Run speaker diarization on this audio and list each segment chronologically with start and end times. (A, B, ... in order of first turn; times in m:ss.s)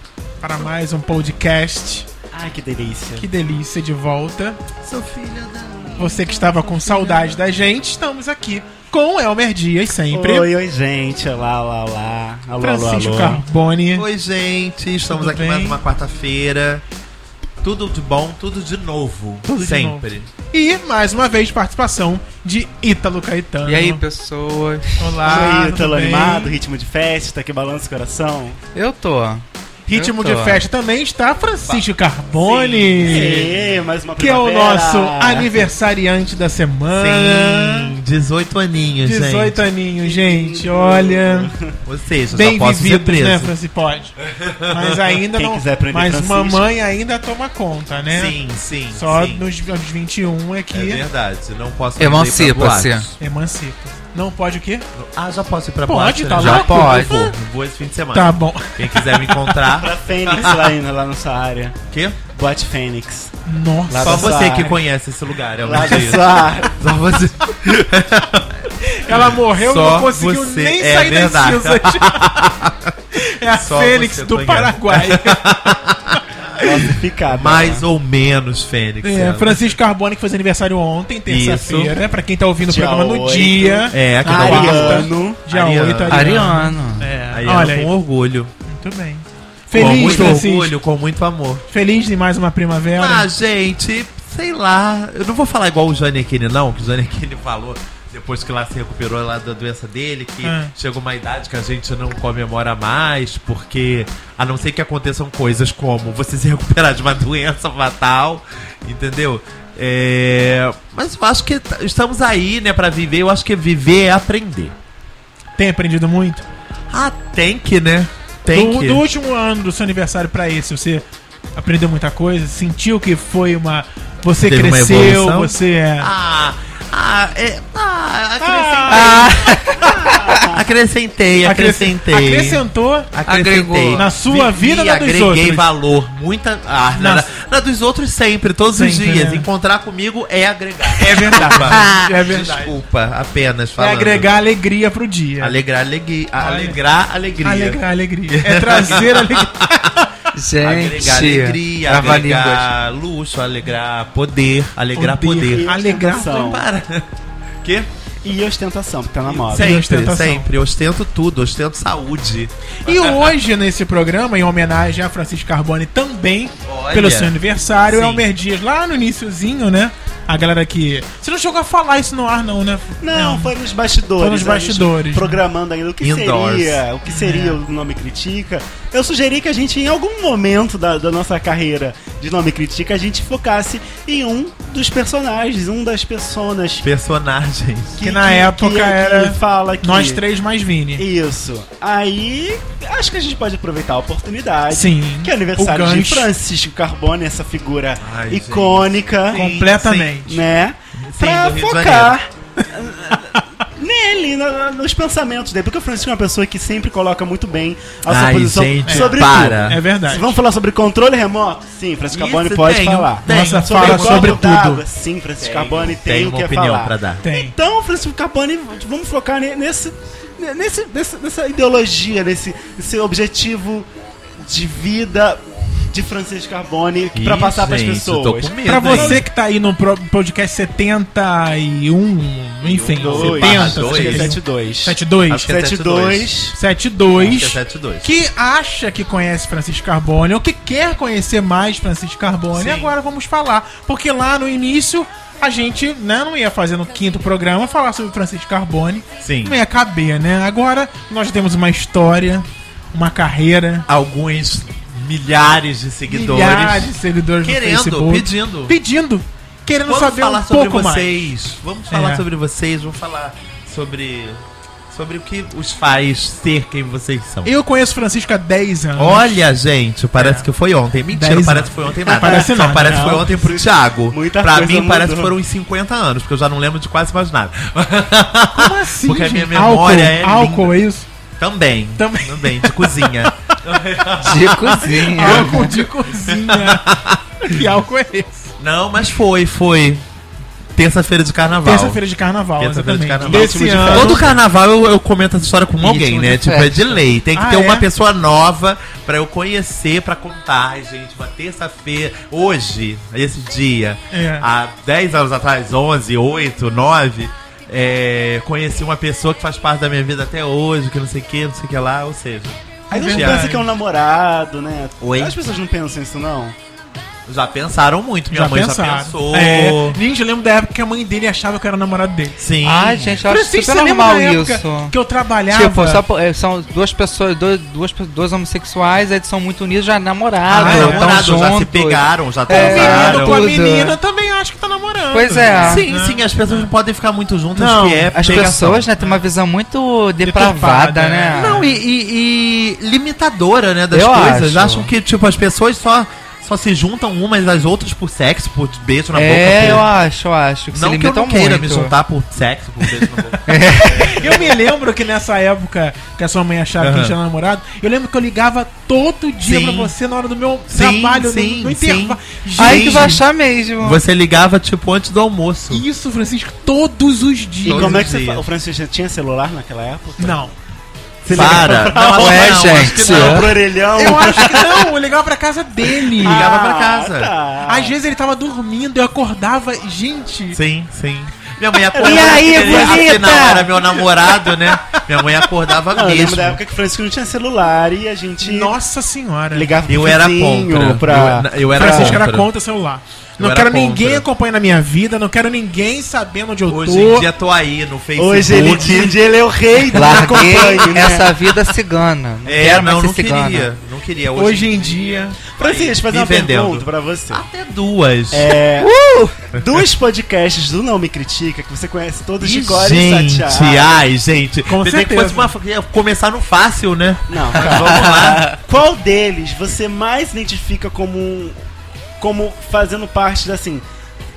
0:00.4-0:02.1 A
0:02.3-0:03.3 B
0:03.2-0:04.6 A
0:04.8-0:07.3 C
0:06.0-0:10.5 A
0:10.1-0:13.4 B
0:12.6-0:14.1 A
0:13.9-0:16.8 C
0:15.1-0:15.8 A
0:17.6-0:20.3 C
0:19.5-0:24.0 A
0:23.6-0:25.2 D
0:25.0-0:26.6 A
0:25.2-0:28.6 B
0:28.7-0:30.6 D
0:29.9-0:33.5 A
0:32.4-0:35.7 B
0:34.2-0:37.9 A
0:36.9-0:39.6 C
0:39.0-0:41.5 A
0:40.0-0:41.7 B
0:41.8-0:43.5 C
0:42.3-0:44.1 A
0:44.2-0:45.1 C
0:44.7-0:48.3 A
0:45.3-0:46.6 B
0:48.1-0:49.5 C
0:48.9-0:51.0 A
0:50.7-0:53.1 C
0:52.0-0:53.1 D
0:53.2-0:54.9 A
0:54.9-1:00.7 C
0:55.8-0:57.2 A
0:56.3-0:57.3 D
0:58.1-0:59.6 A
0:59.7-1:01.8 B
1:01.9-1:02.2 C
1:02.3-1:03.3 B
1:03.4-1:04.7 A
1:03.9-1:04.8 B
1:03.9-1:13.0 C
1:05.6-1:06.8 B
1:08.8-1:12.3 A
1:13.1-1:16.2 A
1:13.5-1:16.2 C
1:16.6-1:17.8 B
1:17.3-1:19.6 C
1:19.0-1:27.9 A
1:21.3-1:22.0 C
1:22.6-1:25.4 B
1:23.9-1:26.3 C
1:26.1-1:27.1 D
1:27.3-1:28.5 C
1:28.7-1:30.7 A
1:29.7-1:31.6 C
1:29.8-1:30.4 B
1:31.7-1:33.3 A
1:33.0-1:54.7 C
1:40.4-1:40.7 A
1:55.6-1:56.4 A
1:56.9-1:59.0 C
1:58.5-2:01.0 A
2:01.5-2:06.1 A
2:04.4-2:24.3 C
2:08.4-2:10.0 A
2:08.9-2:10.4 D
2:10.0-2:10.6 B
2:11.4-2:13.1 A
2:13.2-2:14.1 D
2:14.0-2:15.7 A
2:17.0-2:17.3 A
2:18.7-2:19.5 A
2:20.9-2:22.8 A
2:23.8-2:25.6 A
2:25.4-2:30.0 C
2:26.4-2:26.8 A
2:27.4-2:30.1 A
2:30.3-2:32.7 D
2:30.6-2:37.1 C
2:35.0-2:36.4 A
2:35.4-2:36.6 B
2:37.6-2:37.9 C
2:38.2-2:39.8 B
2:39.5-2:40.5 A
2:39.5-2:43.3 C
2:42.8-2:53.5 A
2:46.6-2:48.3 C
2:53.0-3:06.9 B
2:54.2-2:55.4 A
2:56.0-2:56.8 C
2:57.0-2:57.6 A
3:06.8-3:08.1 C
3:08.0-3:11.0 A
3:08.0-3:10.2 B
3:10.9-3:19.5 B
3:14.7-3:16.3 A
3:18.0-3:20.3 C
3:19.3-3:20.4 A
3:20.2-3:43.9 B
3:20.9-3:22.2 C
3:28.0-3:29.8 C
3:28.8-3:30.3 A
3:32.1-3:34.5 C
3:33.2-3:34.8 A
3:35.4-3:37.2 C
3:37.2-3:37.5 A
3:44.4-3:49.2 B
3:47.1-3:49.2 C
3:48.6-3:55.5 A
3:52.6-3:54.4 C
3:52.9-3:56.6 B
3:55.3-3:56.3 C
3:56.5-4:13.9 A
3:57.1-3:58.1 C
4:02.5-4:02.9 C
4:09.2-4:09.6 C
4:13.9-4:18.8 C
4:16.1-4:21.3 A
4:19.8-4:27.5 C
4:21.9-4:22.2 A
4:27.4-4:29.4 A
4:28.9-4:40.8 C
4:30.2-4:30.5 A
4:31.1-4:33.1 A
4:32.1-4:35.3 B
4:38.5-4:41.1 A
4:41.4-4:47.6 C
4:42.0-4:43.3 A
4:44.2-4:45.7 D
4:45.1-4:46.9 A
4:47.4-4:48.5 A
4:48.6-4:50.0 C
4:50.8-4:52.0 C
4:51.6-4:54.2 A
4:52.6-5:12.6 C
4:53.2-4:54.3 B
4:55.8-4:57.0 D
4:57.3-4:57.8 A
5:04.1-5:04.5 A
5:12.9-5:13.7 A
5:12.9-5:16.5 B
5:13.1-5:13.4 C
5:15.0-5:15.4 C
5:17.3-5:20.0 C
5:18.3-5:22.4 A
5:22.4-5:23.2 C
5:22.6-5:25.0 D
5:23.2-5:26.0 A
5:25.5-5:34.0 D
5:30.5-5:33.5 C
5:30.5-5:31.3 A
5:32.5-5:36.7 A
5:35.1-5:35.8 D
5:35.6-5:38.9 C
5:37.5-5:39.2 A
5:38.1-5:41.6 D
5:40.2-5:41.7 A
5:41.3-5:49.9 C
5:43.9-5:44.9 D
5:49.1-5:51.9 D
5:50.7-5:54.6 C
5:53.4-5:54.4 D
5:54.0-6:03.2 A
5:56.8-5:57.2 C
5:59.4-5:59.9 C
6:00.7-6:03.2 C
6:02.6-6:04.0 D
6:03.8-6:05.8 C
6:05.7-6:08.1 A
6:07.6-6:10.4 B
6:07.6-6:08.4 C
6:10.2-6:10.5 A
6:11.2-6:14.9 B
6:11.3-6:13.6 C
6:11.4-6:12.0 A
6:12.0-6:13.5 D
6:13.9-6:16.5 A
6:16.1-6:18.0 B
6:16.2-6:17.3 C
6:17.6-6:20.6 A
6:20.5-6:26.6 C
6:21.9-6:23.4 B
6:22.0-6:23.7 D
6:24.2-6:25.2 A
6:25.9-6:28.7 B
6:28.4-6:29.9 A
6:29.5-6:32.2 B
6:29.9-6:32.5 C
6:31.7-6:37.3 A
6:33.4-6:34.2 C
6:36.7-6:39.2 C
6:38.2-6:41.7 B
6:39.9-6:43.7 D
6:40.0-6:40.5 C
6:42.4-6:48.5 C
6:44.4-6:45.4 A
6:45.5-6:47.4 B
6:48.3-6:48.9 B
6:48.8-6:49.3 D
6:49.5-6:54.0 B
6:49.6-6:49.8 C
6:52.4-6:58.6 C
6:54.7-6:55.5 A
6:57.3-7:01.6 B
6:57.8-6:58.5 D
7:02.2-7:03.8 B